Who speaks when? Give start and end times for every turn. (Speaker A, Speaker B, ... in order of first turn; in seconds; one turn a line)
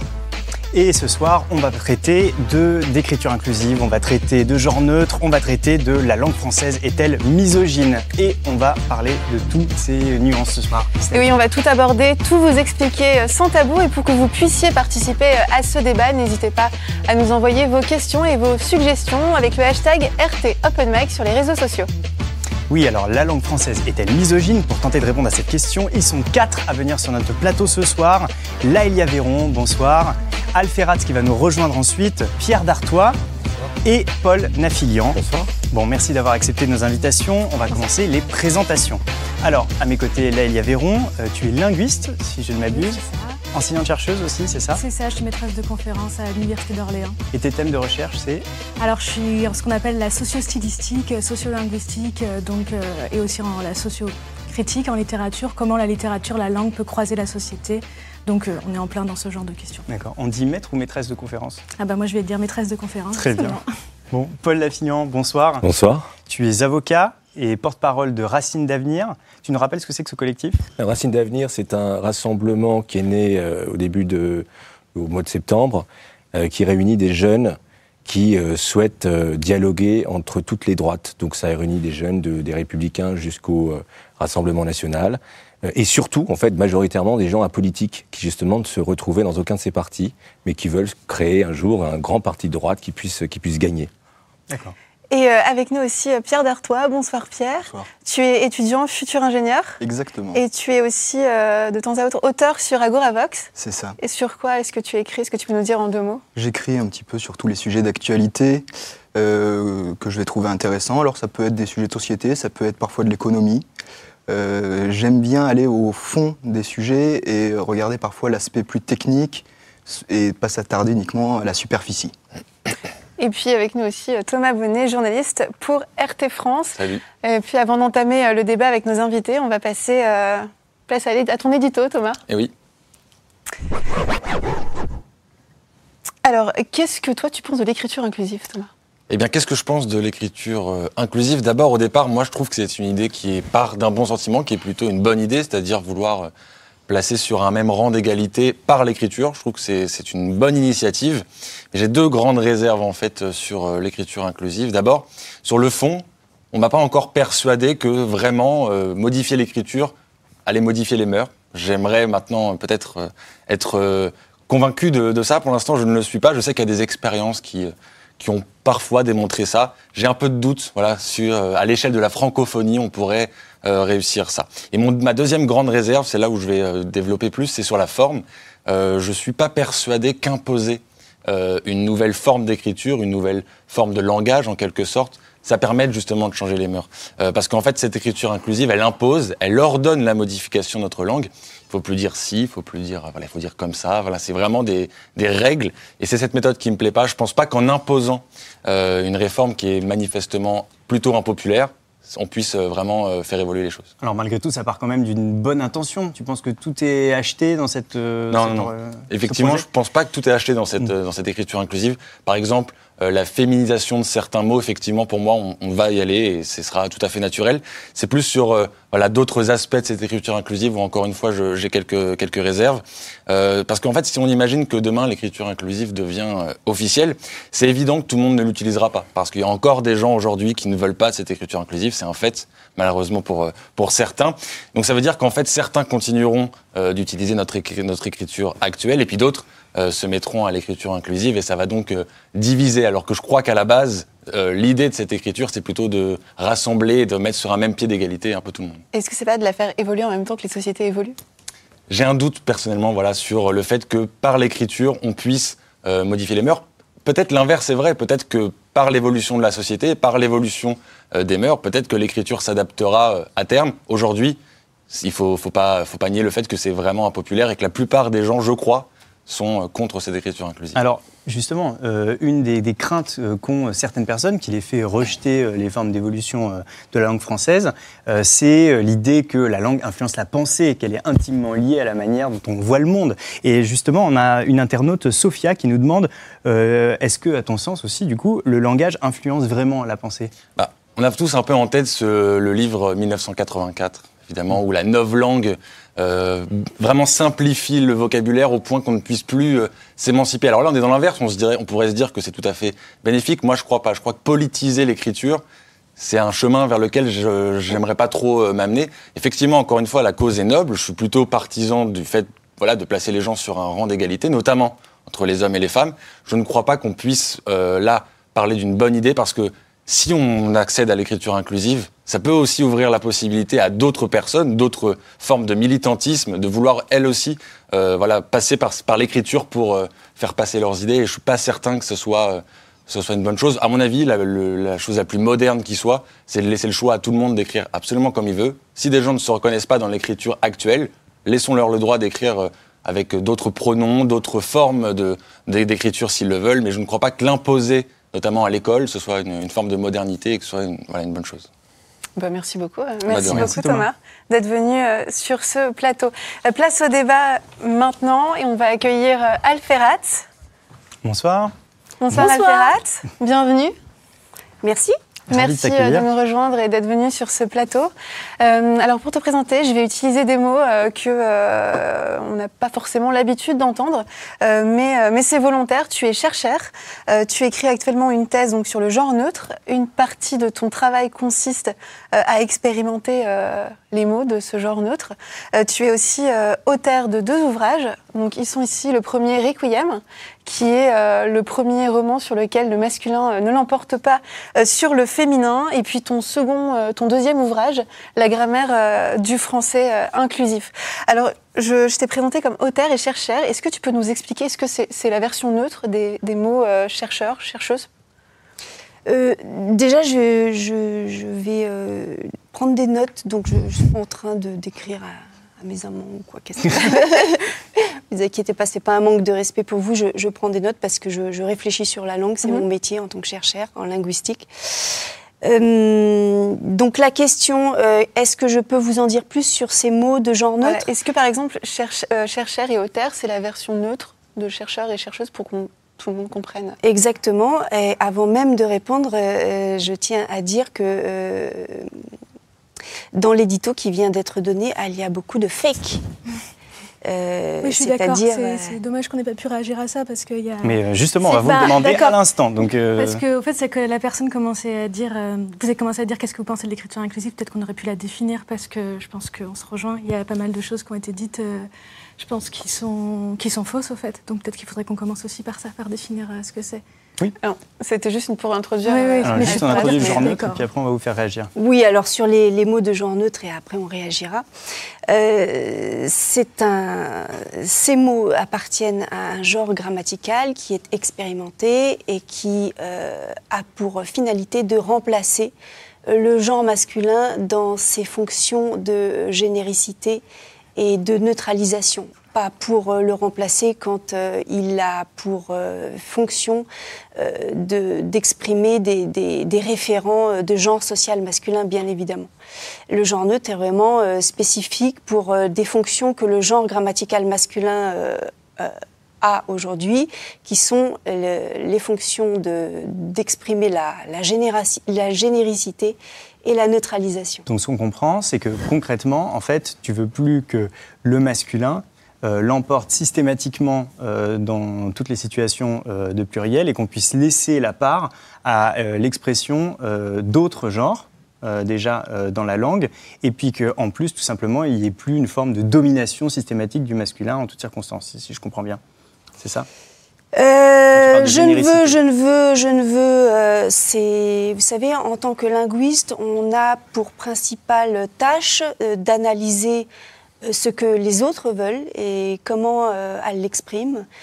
Speaker A: 0.7-11.3
Speaker B: 11.1-21.9
Speaker A: 22.7-33.2
Speaker A: 33.8-44.8
Speaker C: 35.1-35.5
Speaker D: 42.6-43.4
Speaker D: 44.7-47.2
Speaker A: 47.3-48.5
Speaker D: 48.8-59.8
Speaker A: 59.9-61.6
Speaker D: 61.8-63.7
Speaker A: 63.1-63.6
Speaker A: 64.1-65.6
Speaker C: 65.6-66.1
Speaker A: 66.2-70.6
Speaker C: 70.8-93.9
Speaker A: 94.5-94.7
Speaker B: 95.1-99.8
Speaker E: 99.8-100.4
Speaker B: 100.3-106.2
Speaker E: 103.5-104.0
Speaker E: 106.3-113.7
Speaker E: 114.3-122.1
Speaker B: 123.2-132.2
Speaker F: 126.8-127.0
Speaker B: 136.2-138.7
Speaker F: 139.1-146.3
Speaker F: 146.9-159.9
Speaker F: 160.4-203.9
Speaker A: 204.0-209.6
Speaker F: 208.3-248.8
Speaker B: 248.9-251.2
Speaker F: 251.9-264.4
Speaker F: 264.9-270.8
Speaker A: 270.7-290.3
Speaker F: 290.6-305.4
Speaker F: 306.0-351.5
Speaker B: 352.2-360.2
Speaker F: 353.1-353.5
Speaker A: 353.1-353.9
Speaker A: 361.0-361.5
Speaker B: 362.0-363.7
Speaker G: 362.1-362.8
Speaker G: 364.6-365.0
Speaker B: 365.3-407.9
Speaker A: 365.3-366.1
Speaker G: 409.1-424.5
Speaker G: 425.4-430.8
Speaker B: 430.6-436.8
Speaker G: 436.8-441.9
Speaker G: 443.1-446.0
Speaker G: 447.0-448.8
Speaker D: 447.6-452.2
Speaker A: 450.6-453.2
Speaker D: 452.9-466.8
Speaker B: 467.4-470.4
Speaker D: 468.9-470.6
Speaker A: 469.2-471.5
Speaker G: 471.6-474.4
Speaker G: 475.1-485.5
Speaker G: 486.1-490.2
Speaker G: 490.8-496.6
Speaker G: 497.2-502.3
Speaker G: 502.9-517.4
Speaker A: 517.5-538.8
Speaker A: 539.4-539.7
Speaker G: 540.3-549.9
Speaker A: 540.9-542.0
Speaker G: 550.4-554.1